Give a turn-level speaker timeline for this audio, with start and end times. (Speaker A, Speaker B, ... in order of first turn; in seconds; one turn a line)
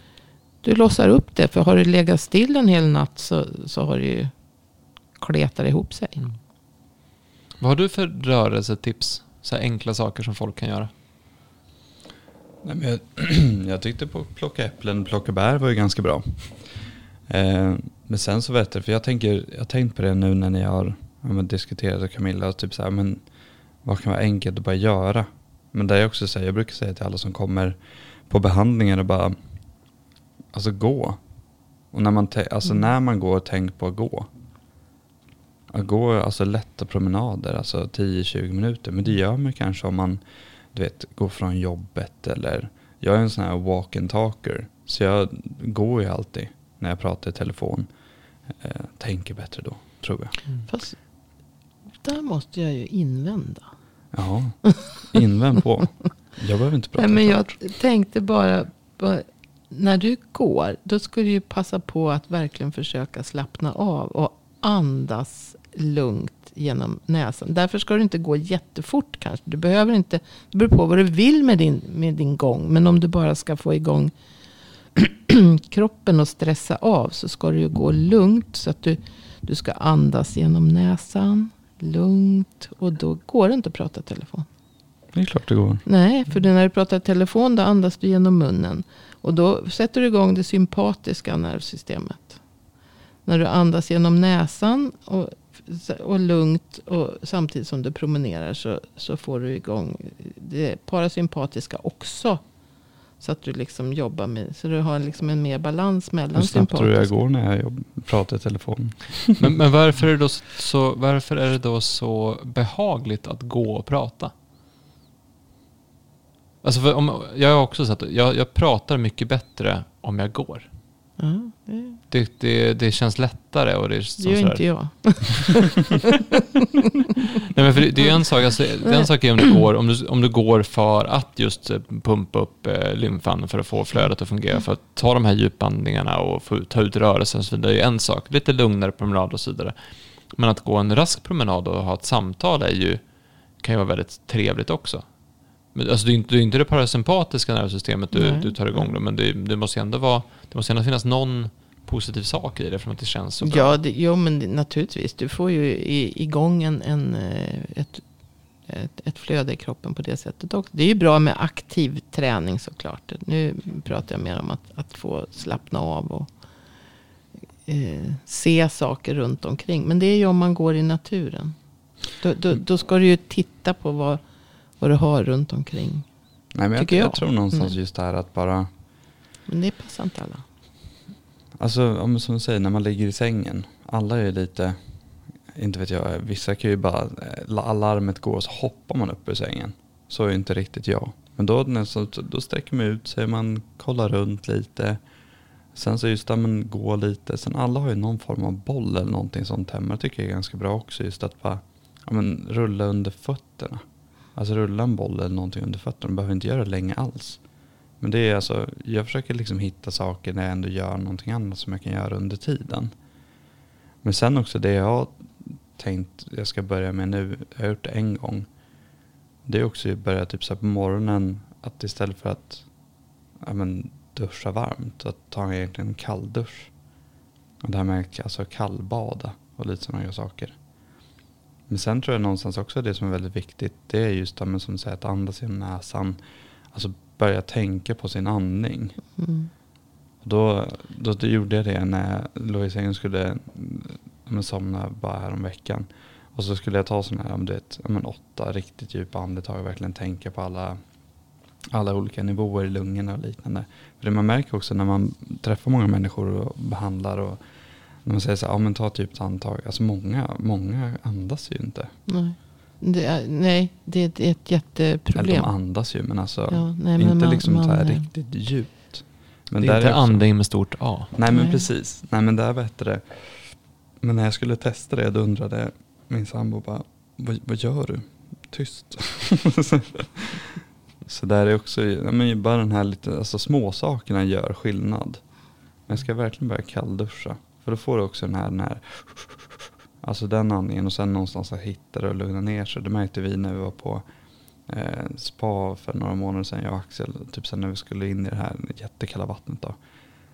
Speaker A: 0.6-4.3
Speaker A: 5.2-6.2
Speaker B: 7.6-10.9
Speaker C: 12.6-16.7
Speaker C: 17.3-23.2
Speaker C: 23.8-29.3
Speaker C: 30.5-31.2
Speaker C: 31.9-34.3
Speaker C: 35.7-40.2
Speaker C: 40.7-47.9
Speaker C: 48.6-50.4
Speaker A: 50.7-51.0
Speaker A: 52.0-53.7
Speaker C: 54.1-57.5
Speaker A: 57.0-74.1
Speaker A: 74.9-84.5
Speaker C: 85.1-85.8
Speaker A: 85.8-92.4
Speaker A: 93.2-102.4
Speaker A: 103.2-107.1
Speaker C: 106.3-109.5
Speaker B: 109.4-114.3
Speaker B: 116.6-120.7
Speaker A: 121.2-122.0
Speaker B: 122.1-124.6
Speaker A: 124.2-127.2
Speaker B: 127.3-139.7
Speaker A: 128.8-129.5
Speaker B: 140.3-143.0
Speaker B: 143.6-145.0
Speaker B: 145.7-153.8
Speaker A: 148.1-148.8
Speaker A: 153.4-158.0
Speaker A: 158.7-166.3
Speaker A: 167.7-171.6
Speaker A: 172.2-174.2
Speaker A: 174.8-176.1
Speaker C: 176.5-178.7
Speaker A: 176.8-177.8
Speaker A: 179.5-180.4
Speaker C: 181.6-184.8
Speaker C: 185.5-195.0
Speaker C: 195.7-203.8
Speaker C: 204.3-207.4
Speaker C: 208.0-212.9
Speaker C: 214.0-218.5
Speaker C: 219.4-222.6
Speaker C: 223.4-226.7
Speaker C: 227.6-230.5
Speaker C: 231.7-236.2
Speaker C: 236.7-239.0
Speaker A: 239.2-239.5
Speaker C: 240.2-250.8
Speaker C: 251.7-257.4
Speaker C: 258.0-261.9
Speaker A: 262.1-265.5
Speaker C: 265.1-270.2
Speaker A: 266.5-268.1
Speaker B: 269.6-271.1
Speaker C: 271.1-273.4
Speaker A: 271.3-271.6
Speaker C: 274.0-285.2
Speaker C: 285.9-294.0
Speaker C: 294.7-299.8